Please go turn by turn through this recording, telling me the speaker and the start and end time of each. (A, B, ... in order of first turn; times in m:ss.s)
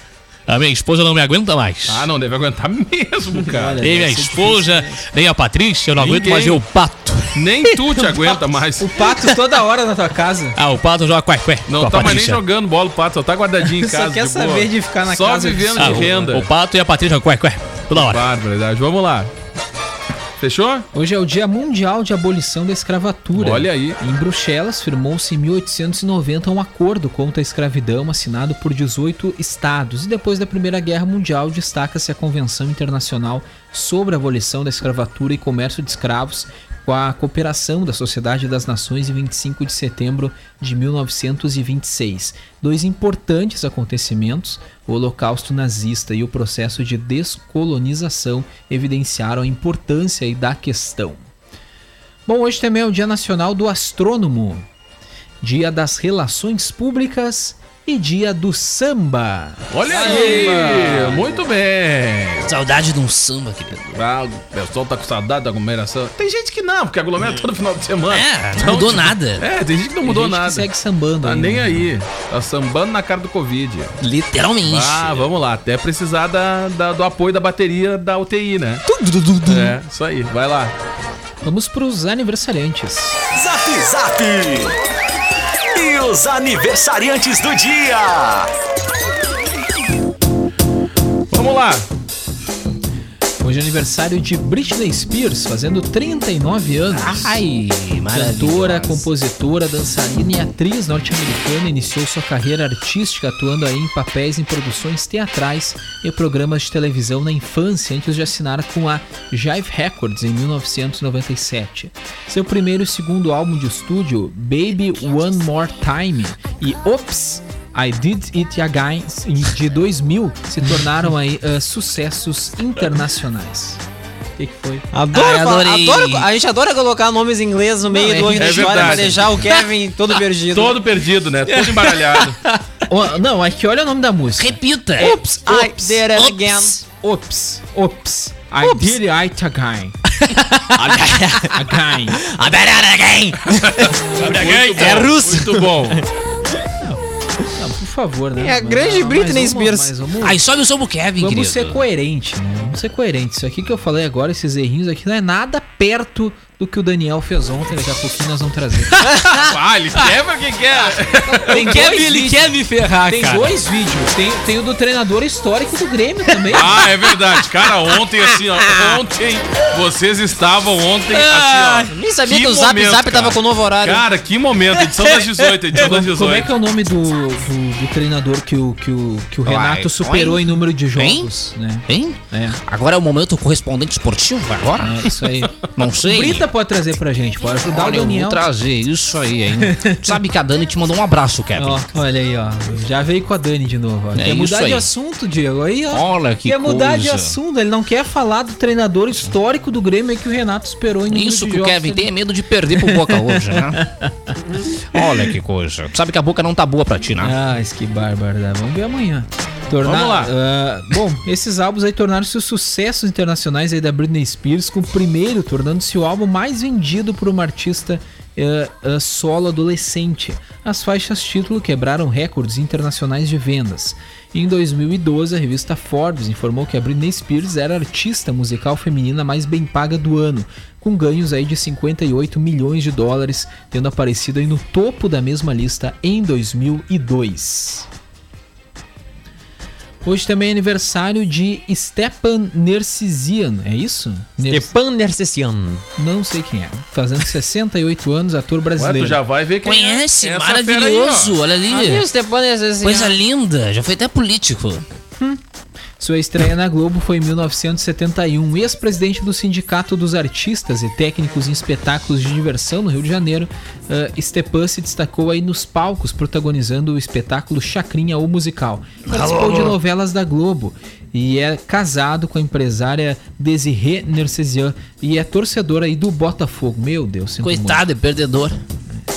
0:00.5-0:02.1 A
0:01.9-0:03.8 B
0:03.5-0:05.0 C
0:03.8-0:07.8 A
0:06.0-0:06.6 B
0:07.4-0:08.9 B
0:08.8-0:10.6 C
0:10.6-0:12.4 A
0:11.7-0:16.5 B
0:13.8-0:16.5 C
0:15.8-0:18.2 A
0:17.9-0:19.3 B
0:20.4-0:20.9 B
0:20.9-0:51.3 C
0:23.4-0:24.0 B
0:52.3-0:54.7 C
0:55.4-1:01.0 C
0:59.7-1:02.5 B
0:59.9-1:01.2 A
1:02.5-1:03.9 A
1:03.9-1:10.7 B
1:08.1-1:09.4 A
1:10.0-1:11.9 C
1:11.2-1:13.9 B
1:14.0-1:15.3 A
1:14.6-1:18.8 B
1:18.9-1:19.7 A
1:19.4-1:20.7 B
1:21.4-1:23.2 C
1:23.3-1:24.8 D
1:25.8-1:28.5 D
1:31.3-1:31.9 B
1:33.4-1:37.5 C
1:36.9-1:39.1 A
1:38.1-2:03.8 C
2:04.4-2:04.9 C
2:04.9-2:10.9 E
2:05.1-2:06.3 A
2:07.9-2:09.4 C
2:08.4-2:09.2 B
2:10.5-2:12.4 B
2:12.9-2:16.0 C
2:14.4-2:15.2 A
2:15.0-2:16.8 E
2:16.1-2:16.8 A
2:17.0-2:20.0 C
2:18.6-2:19.0 E
2:20.2-2:26.0 E
2:21.5-2:22.2 C
2:23.6-2:26.0 B
2:24.2-2:25.1 A
2:27.5-2:30.4 C
2:28.4-2:29.9 E
2:30.2-2:31.8 A
2:31.2-2:39.1 C
2:39.2-2:39.5 E
2:39.4-2:41.9 B
2:41.3-2:42.6 C
2:41.5-2:43.5 A
2:43.1-2:46.9 C
2:46.5-2:56.5 B
2:51.1-2:54.1 E
2:54.8-2:55.3 E
2:55.8-3:02.6 C
2:59.5-3:01.3 A
3:01.9-3:05.1 A
3:04.8-3:08.4 C
3:05.8-3:06.5 A
3:07.7-3:11.8 A
3:09.6-3:10.2 C
3:11.6-3:22.1 C
3:14.2-3:14.9 A
3:15.9-3:17.4 A
3:21.1-3:23.8 A
3:22.8-3:24.1 C
3:24.9-3:27.3 A
3:27.2-3:57.9 C
3:29.8-3:30.3 B
4:00.0-4:04.7 C
4:04.5-4:05.8 E
4:06.0-4:09.2 C
4:08.8-4:11.4 B
4:09.6-4:12.1 A
4:11.7-4:13.2 E
4:12.8-4:14.8 A
4:16.0-4:37.8 C
4:29.1-4:29.8 A
4:37.4-4:38.6 A